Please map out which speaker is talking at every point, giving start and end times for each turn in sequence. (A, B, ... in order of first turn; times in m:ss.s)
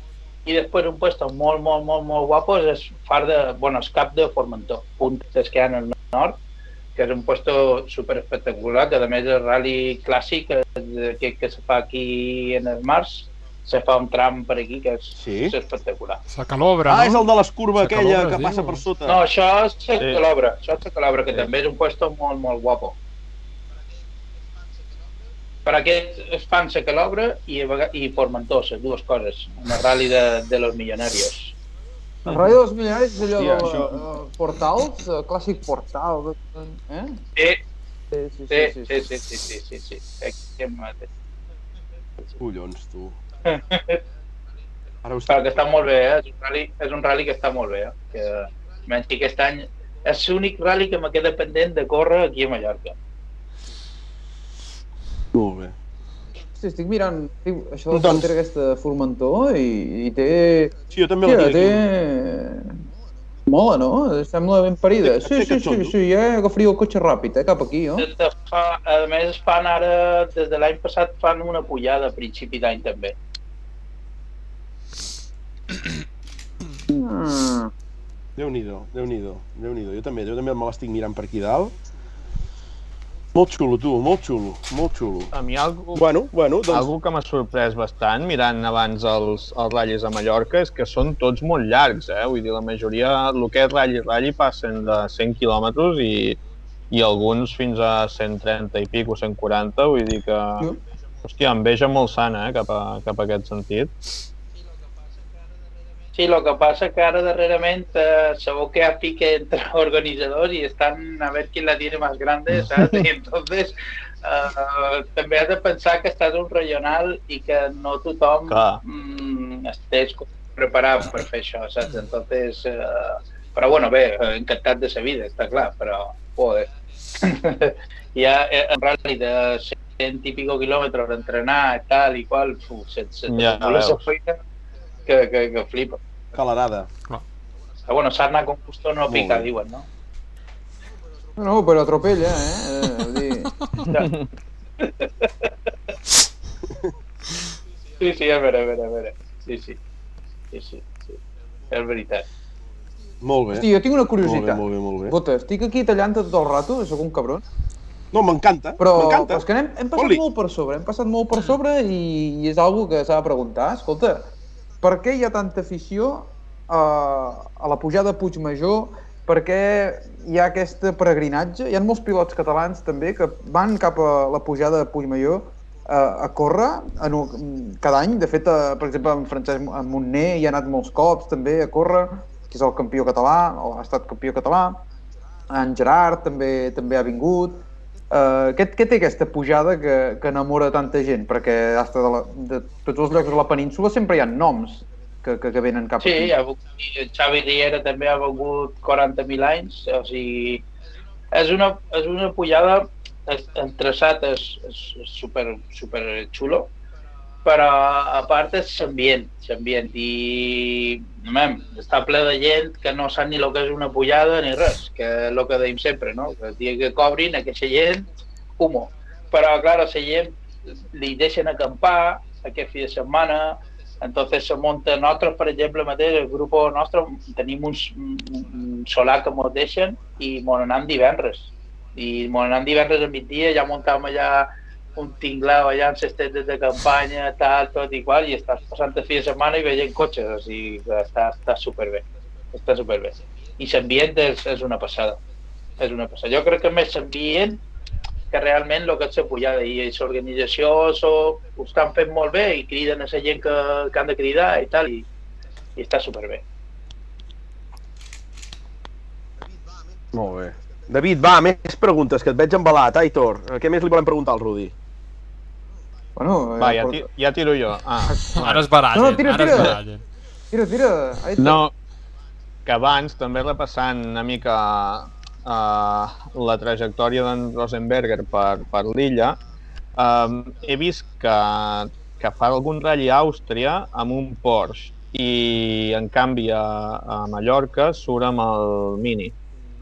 0:00.4-0:06.4 A
0:07.0-0:16.2 A
0:15.2-0:15.5 B
0:16.3-0:17.2 C
0:16.9-0:19.2 B
0:17.8-0:18.8 C
0:19.0-0:23.0 A
0:20.0-0:20.2 D
0:25.6-0:31.5 A
0:32.3-0:37.2 E
0:33.2-0:34.0 B
0:38.1-0:38.9 E
0:38.5-0:41.1 A
0:42.4-0:43.2 B
0:43.4-0:44.0 A
0:45.0-0:45.5 B
0:45.3-0:52.9 A
0:55.3-0:55.7 B
0:56.6-1:02.8 E
0:57.9-0:58.3 B
1:00.9-1:01.9 B
1:03.5-1:08.1 E
1:05.0-1:05.9 B
1:08.0-1:13.1 A
1:16.9-1:17.7 E
1:18.4-1:21.7 B
1:23.3-1:25.3 B
1:25.3-1:26.0 D
1:25.9-1:26.9 B
1:26.7-1:36.4 D
1:36.9-1:40.7 D
1:41.2-1:44.0 D
1:46.1-2:14.4 A
1:52.6-1:53.0 D
1:58.5-1:58.8 D
2:13.3-2:14.0 D
2:15.0-2:16.0 A
2:16.3-2:16.9 B
2:17.9-2:19.8 A
2:19.1-2:19.5 B
2:21.4-2:23.5 E
2:23.8-2:24.3 D
2:24.8-2:25.5 A
2:28.0-2:29.8 A
2:30.5-2:31.1 A
2:31.7-2:32.2 A
2:33.2-2:33.7 B
2:33.5-2:37.4 E
2:34.2-2:35.2 B
2:38.1-2:40.2 B
2:38.8-2:44.3 E
2:44.8-3:04.8 E
3:05.5-3:16.3 E
3:16.0-3:20.6 A
3:21.3-3:26.7 A
3:27.4-4:05.2 A
4:05.8-4:07.6 A
4:08.3-4:15.0 A
4:15.8-4:16.4 A
4:20.1-4:24.7 B
4:26.2-4:27.0 E
4:26.6-4:28.7 D
4:28.3-4:30.0 C
4:28.9-4:29.8 E
4:29.5-4:29.8 D
4:30.5-4:31.6 E
4:31.4-4:31.7 D
4:32.6-4:39.4 D
4:40.0-4:49.3 D